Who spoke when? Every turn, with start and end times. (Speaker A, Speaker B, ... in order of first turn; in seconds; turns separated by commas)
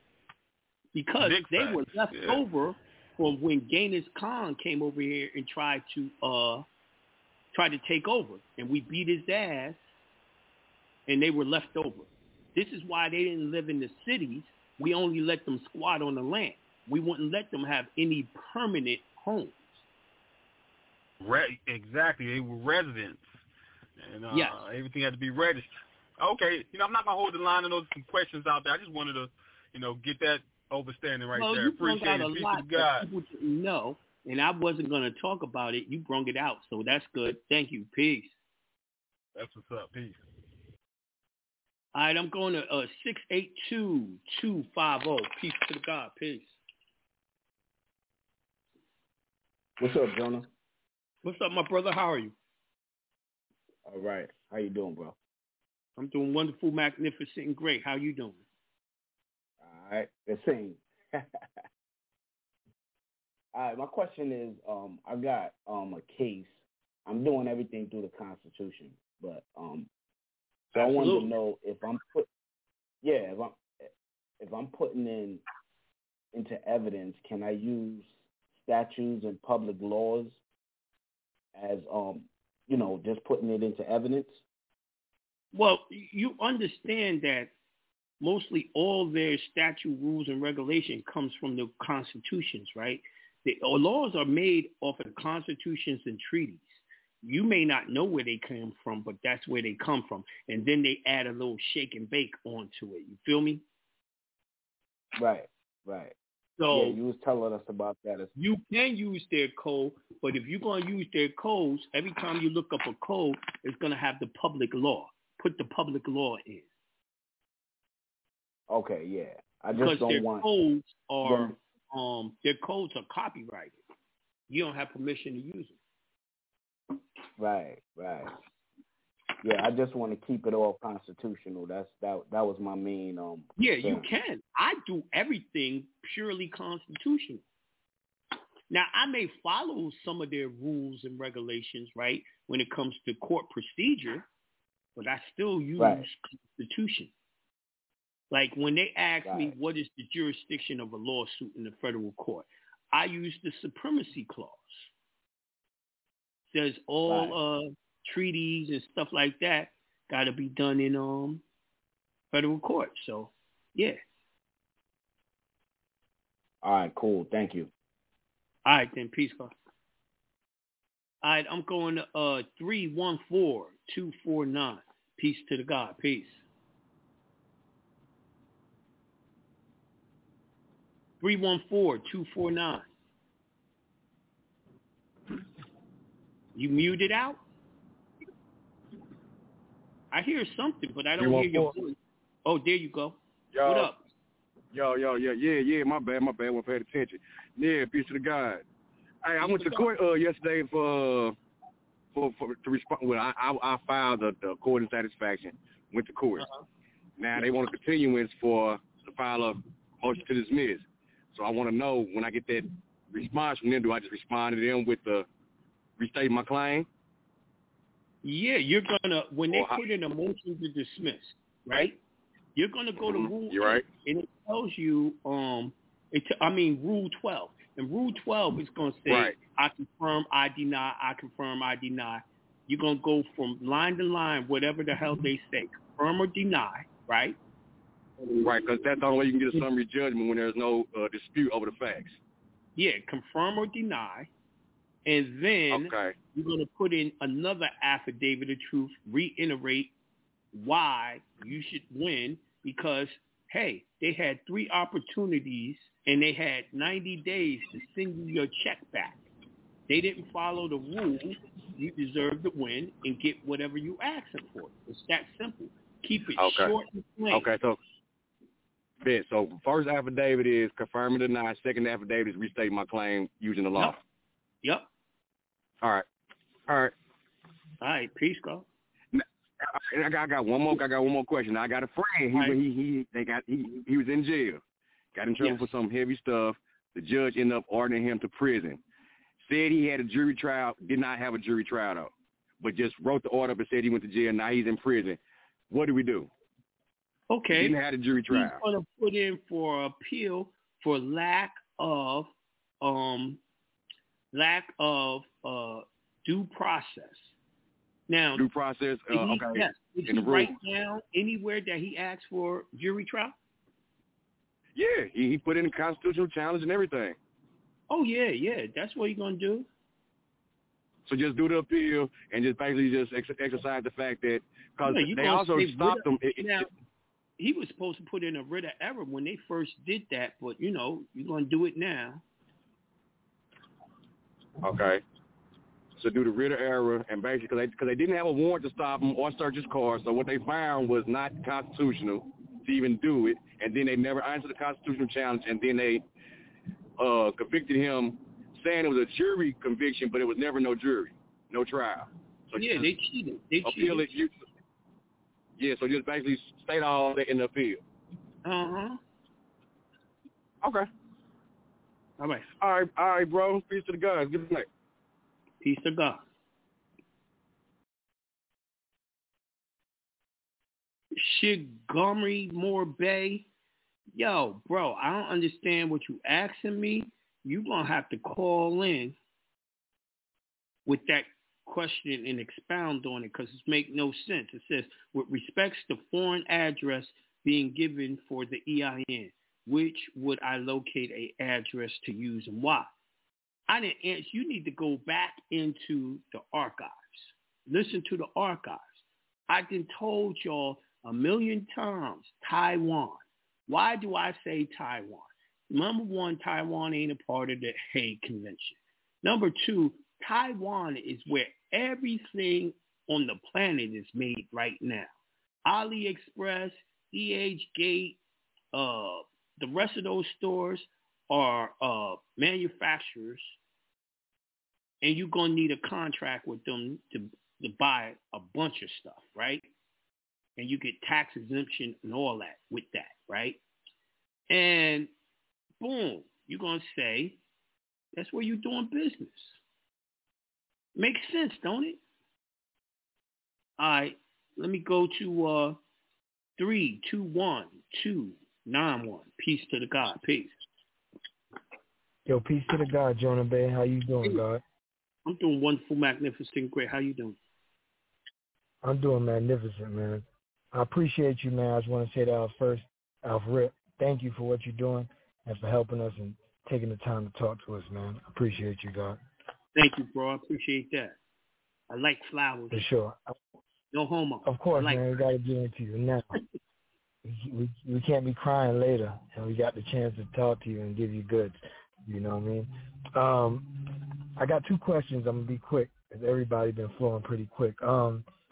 Speaker A: 0.9-6.6, Speaker B: 1.2-2.4, Speaker A: 7.5-9.8, Speaker A: 11.1-19.7, Speaker B: 21.2-23.4, Speaker B: 24.0-33.1, Speaker A: 24.3-24.6, Speaker A: 31.4-38.4, Speaker B: 39.4-40.2, Speaker A: 41.9-46.6, Speaker C: 49.8-50.5, Speaker A: 51.2-52.3, Speaker C: 53.9-55.2, Speaker A: 56.0-58.4, Speaker C: 59.6-61.2, Speaker C: 63.5-69.9, Speaker C: 70.7-72.3, Speaker A: 70.8-71.3, Speaker C: 73.0-73.9, Speaker C: 74.4-75.4, Speaker C: 76.3-80.4, Speaker C: 81.5-84.4, Speaker A: 85.5-87.5, Speaker A: 88.2-103.6, Speaker C: 105.2-106.2, Speaker A: 106.6-107.0, Speaker C: 106.7-108.3, Speaker A: 108.4-116.7, Speaker C: 118.7-120.5, Speaker A: 119.8-123.8, Speaker C: 121.2-121.6, Speaker A: 124.5-125.8, Speaker C: 127.4-128.3, Speaker C: 129.4-134.1, Speaker A: 133.6-137.4, Speaker A: 138.7-144.2, Speaker A: 145.0-147.1, Speaker C: 145.8-146.1, Speaker A: 148.3-154.9, Speaker C: 149.2-149.6, Speaker A: 156.5-161.4, Speaker C: 157.1-157.4, Speaker A: 162.3-164.0, Speaker C: 166.6-167.7, Speaker A: 168.7-169.5, Speaker A: 171.2-176.4, Speaker A: 181.2-182.9, Speaker A: 186.6-187.4, Speaker A: 190.1-194.0, Speaker D: 191.2-191.7, Speaker D: 193.5-193.9, Speaker D: 194.7-198.6, Speaker D: 199.2-201.3, Speaker A: 199.4-199.9, Speaker D: 202.2-206.5, Speaker D: 207.2-210.8, Speaker D: 211.3-215.3, Speaker D: 216.0-216.9, Speaker A: 218.2-222.0, Speaker D: 219.5-219.8, Speaker A: 222.6-237.4, Speaker D: 223.1-223.8, Speaker D: 229.1-229.3, Speaker D: 238.3-242.2, Speaker A: 242.8-244.3, Speaker A: 245.1-249.9, Speaker D: 245.7-246.1, Speaker A: 250.5-259.2, Speaker A: 259.9-267.5, Speaker D: 266.4-266.7, Speaker D: 267.3-267.8, Speaker D: 269.0-274.0, Speaker D: 276.7-276.9, Speaker A: 277.8-278.7, Speaker D: 279.9-284.6, Speaker A: 282.3-282.6, Speaker D: 285.1-288.8, Speaker A: 285.4-285.7, Speaker D: 289.4-292.1, Speaker D: 292.6-295.2, Speaker D: 295.7-296.3, Speaker A: 297.3-297.8, Speaker D: 297.6-298.6, Speaker A: 298.3-302.3, Speaker A: 302.8-303.4, Speaker A: 304.3-307.3, Speaker A: 308.1-308.5, Speaker D: 308.4-310.5, Speaker A: 309.1-313.4, Speaker D: 314.8-317.1, Speaker A: 317.9-319.7, Speaker D: 321.1-326.6, Speaker A: 324.8-326.7, Speaker A: 327.4-332.2, Speaker D: 334.6-335.0, Speaker D: 336.0-346.0, Speaker D: 347.0-352.9, Speaker A: 352.6-354.1, Speaker D: 353.6-354.3, Speaker D: 355.6-357.8, Speaker A: 358.4-359.0, Speaker A: 362.2-362.5, Speaker D: 362.6-364.7, Speaker A: 365.6-366.2, Speaker A: 371.2-373.5, Speaker A: 374.2-379.2, Speaker A: 380.9-392.9, Speaker A: 393.7-398.9, Speaker A: 399.5-415.1, Speaker A: 415.6-418.2, Speaker A: 418.7-423.6, Speaker A: 425.0-429.7, Speaker A: 430.6-433.6, Speaker A: 434.5-435.1, Speaker A: 435.8-437.4, Speaker A: 438.2-439.6, Speaker A: 441.0-442.0, Speaker A: 443.8-445.8, Speaker A: 446.6-450.5, Speaker E: 452.3-454.6, Speaker A: 455.3-457.4, Speaker E: 458.8-469.2, Speaker A: 469.8-471.2, Speaker A: 471.9-472.9, Speaker E: 472.7-473.2, Speaker A: 473.9-475.1, Speaker E: 474.4-476.4, Speaker E: 477.2-483.7, Speaker E: 484.4-488.2